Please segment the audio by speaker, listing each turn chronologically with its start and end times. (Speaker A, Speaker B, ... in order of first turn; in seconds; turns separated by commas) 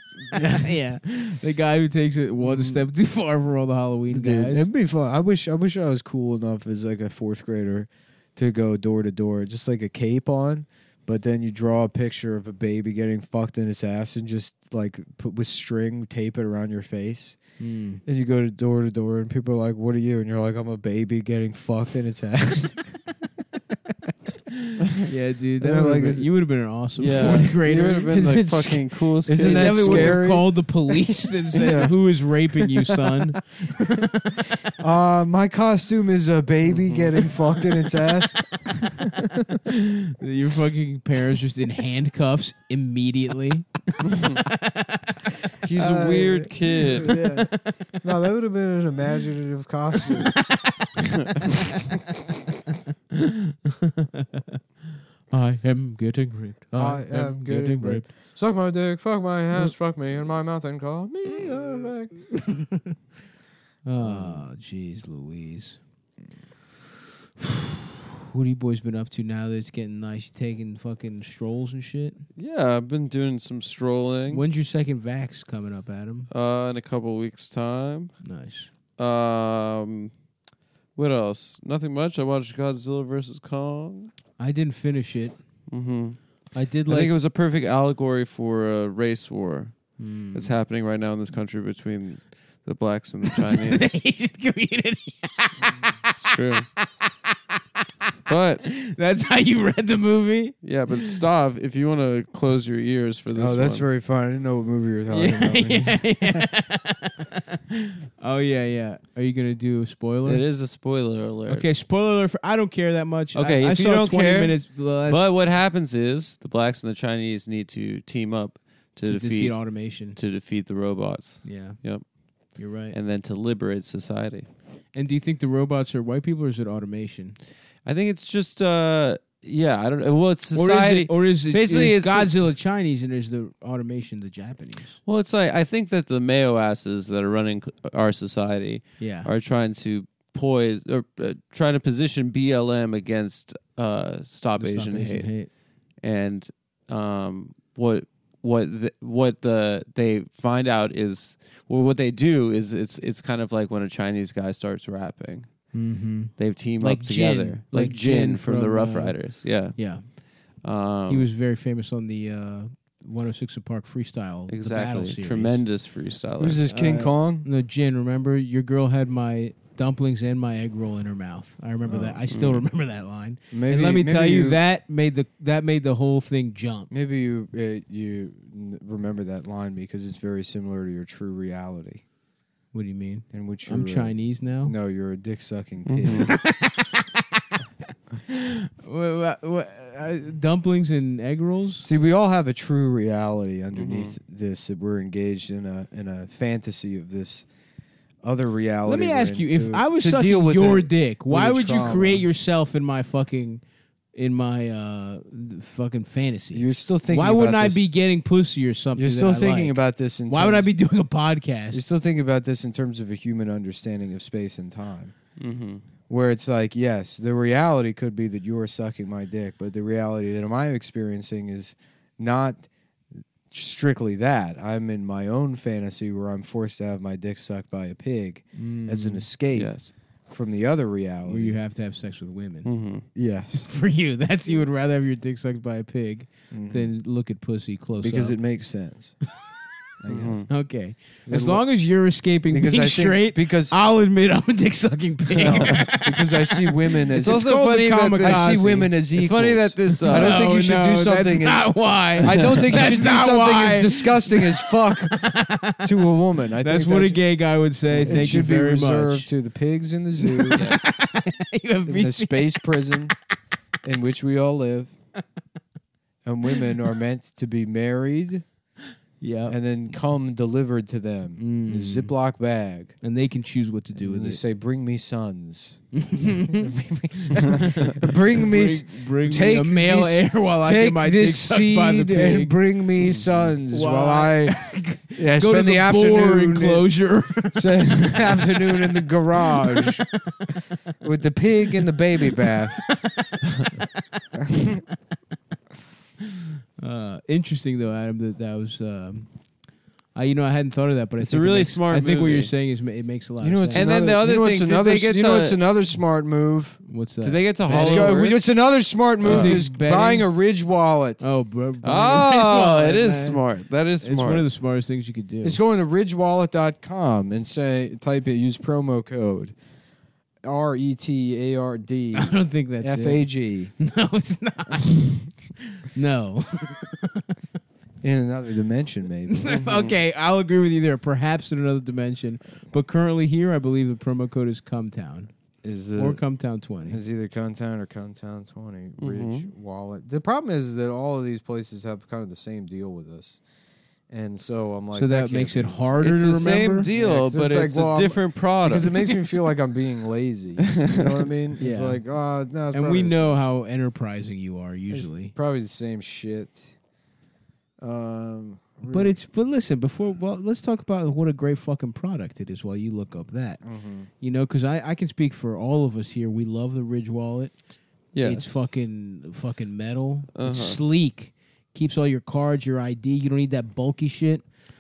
Speaker A: 0.3-4.7, Speaker B: 2.4-2.8, Speaker B: 4.1-17.4, Speaker A: 17.6-18.0, Speaker B: 18.1-23.1, Speaker A: 25.0-28.2, Speaker B: 25.6-26.3, Speaker C: 27.0-30.2, Speaker B: 27.1-30.5, Speaker A: 29.4-34.7, Speaker B: 31.6-31.9, Speaker B: 34.8-39.6, Speaker C: 36.8-37.1, Speaker A: 39.7-45.2, Speaker C: 44.1-44.4, Speaker C: 45.6-47.1, Speaker B: 45.8-50.4, Speaker A: 47.0-47.8, Speaker A: 50.5-50.9, Speaker A: 51.4-51.8, Speaker A: 53.1-54.4, Speaker A: 55.3-58.1, Speaker B: 56.8-62.3, Speaker A: 62.3-63.0, Speaker A: 63.9-65.8, Speaker B: 64.0-64.5, Speaker A: 68.3-72.2, Speaker C: 72.4-74.4, Speaker A: 74.3-76.3, Speaker C: 76.3-78.2, Speaker A: 78.2-78.7, Speaker C: 79.0-80.1, Speaker C: 81.0-84.1, Speaker A: 84.4-85.4, Speaker C: 85.7-86.3, Speaker A: 86.5-87.2, Speaker C: 86.9-94.0, Speaker A: 90.0-90.5, Speaker A: 93.3-96.1, Speaker C: 96.1-96.7, Speaker C: 98.3-98.6, Speaker A: 98.6-101.1, Speaker C: 100.6-103.8, Speaker B: 103.3-106.5, Speaker A: 105.1-110.5, Speaker C: 110.2-111.7, Speaker A: 111.5-115.2, Speaker C: 113.3-122.0, Speaker A: 119.0-120.2, Speaker A: 121.4-121.8, Speaker A: 122.5-123.0, Speaker C: 122.9-124.5, Speaker A: 124.9-127.4, Speaker C: 127.8-132.3, Speaker A: 130.5-135.0, Speaker C: 135.1-145.3, Speaker A: 139.0-139.3, Speaker A: 144.6-145.5, Speaker C: 146.0-155.7, Speaker A: 155.7-160.1, Speaker C: 156.4-160.0, Speaker C: 160.6-161.3, Speaker A: 161.1-165.6, Speaker C: 164.5-166.6, Speaker B: 166.4-167.5, Speaker A: 166.7-176.9, Speaker B: 171.9-172.2, Speaker C: 172.3-172.7, Speaker B: 173.5-174.6, Speaker B: 176.9-182.0, Speaker A: 182.7-184.8, Speaker B: 183.3-186.3, Speaker C: 185.9-186.3, Speaker A: 186.1-187.6, Speaker A: 188.3-191.9, Speaker B: 191.8-197.5, Speaker C: 193.7-194.2, Speaker B: 198.2-202.3, Speaker A: 198.8-203.6, Speaker A: 204.1-211.9, Speaker B: 206.5-207.9, Speaker B: 209.0-210.7, Speaker B: 211.7-215.2, Speaker C: 215.4-215.8, Speaker B: 216.1-222.7, Speaker B: 223.5-229.8, Speaker A: 228.6-229.3, Speaker C: 229.6-229.9, Speaker B: 230.3-231.6, Speaker A: 231.2-232.7, Speaker C: 232.7-233.1, Speaker B: 233.2-233.7, Speaker A: 233.6-238.4, Speaker B: 236.5-236.9, Speaker B: 238.0-239.2, Speaker B: 240.0-240.5, Speaker C: 240.1-240.5, Speaker A: 240.5-248.9, Speaker B: 241.3-241.7, Speaker B: 242.5-243.8, Speaker C: 245.3-245.9, Speaker B: 245.4-255.3, Speaker C: 247.2-248.6, Speaker C: 249.1-250.4, Speaker A: 250.0-256.0, Speaker B: 255.8-257.2, Speaker A: 256.6-259.3, Speaker B: 258.0-260.6, Speaker A: 260.2-262.9, Speaker C: 260.5-260.8, Speaker B: 261.9-263.1, Speaker B: 263.8-264.9, Speaker B: 266.2-268.4, Speaker A: 269.2-269.6, Speaker B: 269.5-273.0, Speaker A: 271.4-272.1, Speaker A: 273.0-274.4, Speaker B: 273.9-275.8, Speaker A: 275.9-282.6, Speaker B: 276.5-284.6, Speaker A: 283.7-290.6, Speaker B: 285.1-286.9, Speaker B: 287.5-290.1, Speaker B: 291.0-292.9, Speaker A: 292.2-294.0, Speaker A: 296.8-299.3, Speaker A: 300.1-304.0, Speaker C: 301.2-302.5, Speaker B: 303.4-306.9, Speaker C: 303.7-305.6, Speaker A: 306.9-308.2, Speaker C: 307.2-309.6, Speaker B: 307.6-311.2, Speaker A: 309.3-310.3, Speaker A: 311.2-313.4, Speaker C: 311.8-314.5, Speaker A: 314.0-315.6, Speaker B: 315.4-319.6, Speaker B: 320.4-323.7, Speaker A: 322.1-323.2, Speaker A: 323.8-327.4, Speaker B: 328.0-329.5, Speaker A: 329.3-335.3, Speaker C: 329.5-330.0, Speaker B: 335.6-336.2, Speaker A: 336.0-337.0, Speaker B: 336.8-343.4, Speaker C: 339.0-339.5, Speaker B: 344.1-345.8, Speaker A: 344.9-346.9, Speaker C: 346.0-349.2, Speaker B: 346.9-353.5, Speaker C: 350.7-351.3, Speaker A: 351.6-352.0, Speaker A: 352.7-355.3, Speaker B: 354.9-356.7, Speaker B: 357.8-359.2, Speaker A: 358.9-363.6, Speaker B: 363.6-364.1, Speaker A: 364.2-367.6, Speaker C: 368.1-368.6, Speaker A: 368.1-374.5, Speaker C: 370.4-370.8